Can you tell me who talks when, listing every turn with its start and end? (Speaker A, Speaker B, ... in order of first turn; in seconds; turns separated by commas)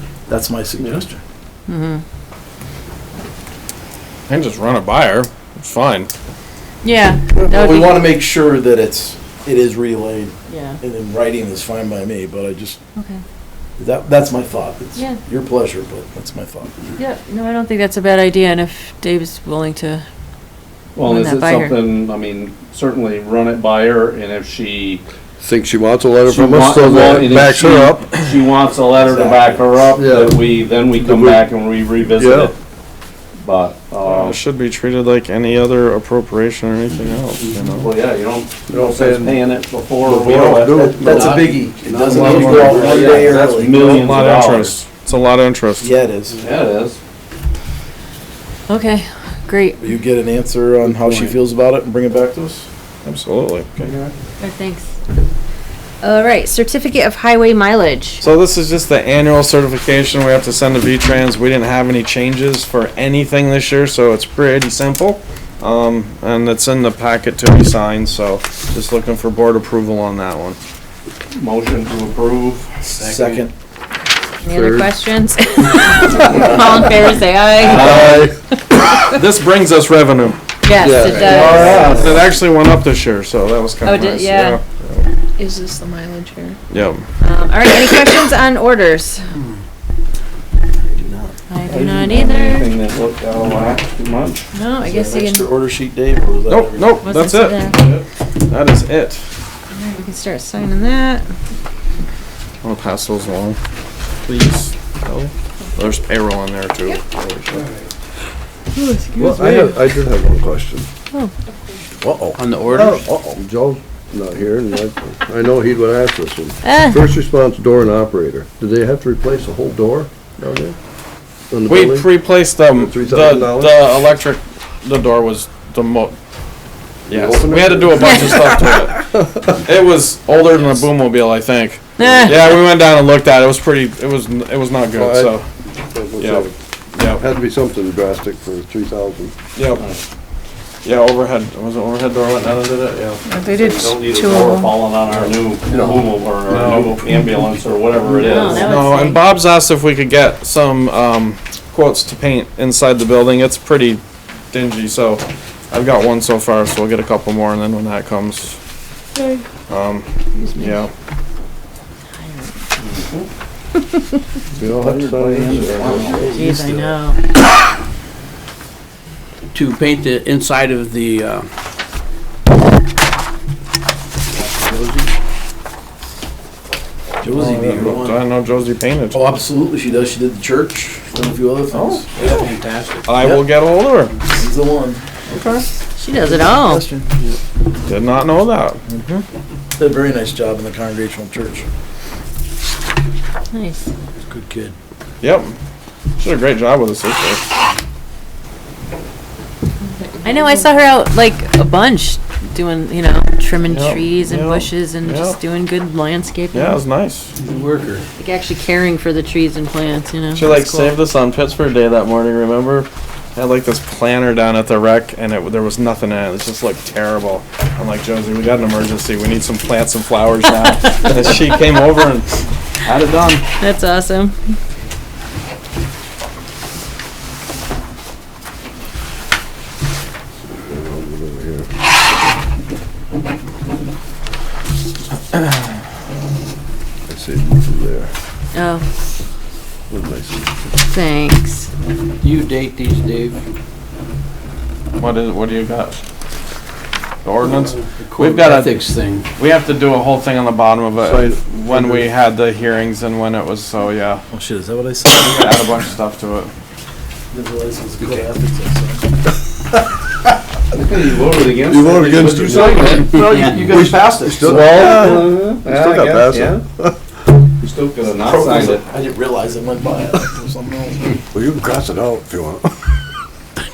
Speaker A: 0.3-1.2, Speaker B: 1.7-2.0, Speaker C: 4.3-6.1, Speaker B: 6.8-8.1, Speaker A: 7.4-12.8, Speaker B: 10.5-10.8, Speaker B: 13.0-13.2, Speaker A: 13.8-16.7, Speaker B: 17.0-20.1, Speaker D: 21.0-25.0, Speaker B: 21.0-21.8, Speaker E: 25.4-28.1, Speaker D: 26.2-32.5, Speaker A: 29.0-30.0, Speaker E: 30.0-30.4, Speaker E: 31.0-31.5, Speaker E: 32.2-32.5, Speaker D: 33.4-34.4, Speaker C: 34.0-37.9, Speaker D: 37.7-44.8, Speaker E: 38.7-39.4, Speaker E: 40.1-41.6, Speaker C: 40.2-40.6, Speaker A: 40.7-44.1, Speaker C: 42.0-45.9, Speaker A: 45.8-46.4, Speaker D: 46.4-47.0, Speaker B: 48.7-49.9, Speaker A: 49.8-52.7, Speaker C: 53.0-53.9, Speaker B: 54.4-54.9, Speaker B: 56.0-58.2, Speaker C: 58.2-70.6, Speaker D: 71.3-73.1, Speaker A: 73.0-73.5, Speaker B: 74.4-78.0, Speaker E: 74.5-74.9, Speaker D: 77.5-78.3, Speaker E: 77.8-78.3, Speaker C: 77.8-78.2, Speaker C: 79.2-80.4, Speaker B: 80.6-81.9, Speaker E: 80.8-81.9, Speaker D: 81.1-82.2, Speaker C: 81.3-85.1, Speaker A: 81.8-82.0, Speaker B: 83.8-84.6, Speaker F: 85.4-86.6, Speaker C: 86.7-87.0, Speaker B: 87.2-89.3, Speaker A: 90.9-91.3, Speaker B: 91.5-92.7, Speaker D: 91.7-94.4, Speaker B: 94.5-95.5, Speaker A: 94.8-97.0, Speaker C: 96.5-98.0, Speaker B: 97.0-97.8, Speaker C: 98.5-99.3, Speaker B: 99.7-101.2, Speaker C: 102.6-103.6, Speaker C: 104.3-107.7, Speaker D: 107.5-107.8, Speaker B: 108.7-109.9, Speaker E: 109.2-110.9, Speaker A: 112.2-113.1, Speaker G: 112.3-113.1, Speaker E: 112.8-120.8, Speaker B: 116.6-117.1, Speaker E: 121.5-122.1, Speaker C: 121.7-126.2, Speaker E: 122.7-123.9, Speaker C: 127.1-135.5, Speaker E: 127.1-129.5, Speaker B: 128.0-128.4, Speaker B: 132.0-132.6, Speaker E: 134.9-135.4, Speaker E: 135.9-136.6, Speaker C: 136.2-137.2, Speaker E: 137.1-139.3, Speaker C: 139.6-139.8, Speaker D: 139.8-140.0, Speaker C: 140.8-143.2, Speaker F: 143.2-144.8, Speaker D: 143.5-148.7, Speaker E: 145.7-146.1, Speaker C: 146.5-147.0, Speaker B: 148.2-149.3, Speaker E: 148.2-148.5, Speaker C: 148.6-158.6, Speaker C: 159.7-160.9, Speaker B: 160.4-160.8, Speaker B: 162.2-162.6, Speaker D: 162.8-163.3, Speaker E: 164.6-166.3, Speaker D: 164.6-166.4, Speaker A: 165.5-166.9, Speaker B: 166.2-167.2, Speaker G: 169.5-171.5, Speaker G: 174.3-175.1, Speaker A: 177.2-178.2, Speaker C: 177.3-179.4, Speaker A: 179.1-182.4, Speaker C: 181.7-184.2, Speaker G: 182.2-183.2, Speaker A: 183.2-183.5, Speaker A: 184.2-185.2, Speaker C: 185.3-185.6, Speaker B: 186.0-186.8, Speaker A: 186.2-187.1, Speaker C: 187.9-188.8, Speaker A: 188.9-189.2, Speaker A: 189.8-191.7, Speaker B: 193.5-193.9, Speaker A: 194.2-194.8, Speaker C: 195.2-195.5, Speaker C: 196.2-197.4, Speaker F: 199.8-200.7, Speaker B: 200.2-206.8, Speaker C: 203.7-205.4, Speaker C: 206.5-207.3, Speaker G: 207.4-208.1, Speaker B: 208.2-211.0, Speaker C: 210.3-223.4, Speaker B: 223.6-224.4, Speaker E: 230.4-231.7, Speaker E: 237.1-238.1, Speaker B: 238.5-238.9, Speaker E: 239.9-240.6, Speaker B: 240.9-241.7, Speaker G: 242.2-243.4, Speaker C: 245.0-246.0, Speaker C: 247.2-254.2, Speaker G: 248.2-249.3, Speaker E: 251.0-252.1, Speaker A: 254.3-255.9, Speaker C: 255.1-256.5, Speaker A: 257.3-259.1, Speaker D: 260.8-263.1, Speaker E: 261.6-267.0, Speaker A: 262.2-265.3, Speaker G: 263.3-263.6, Speaker D: 264.4-266.6, Speaker D: 267.6-268.9, Speaker A: 268.2-271.2, Speaker E: 271.3-272.7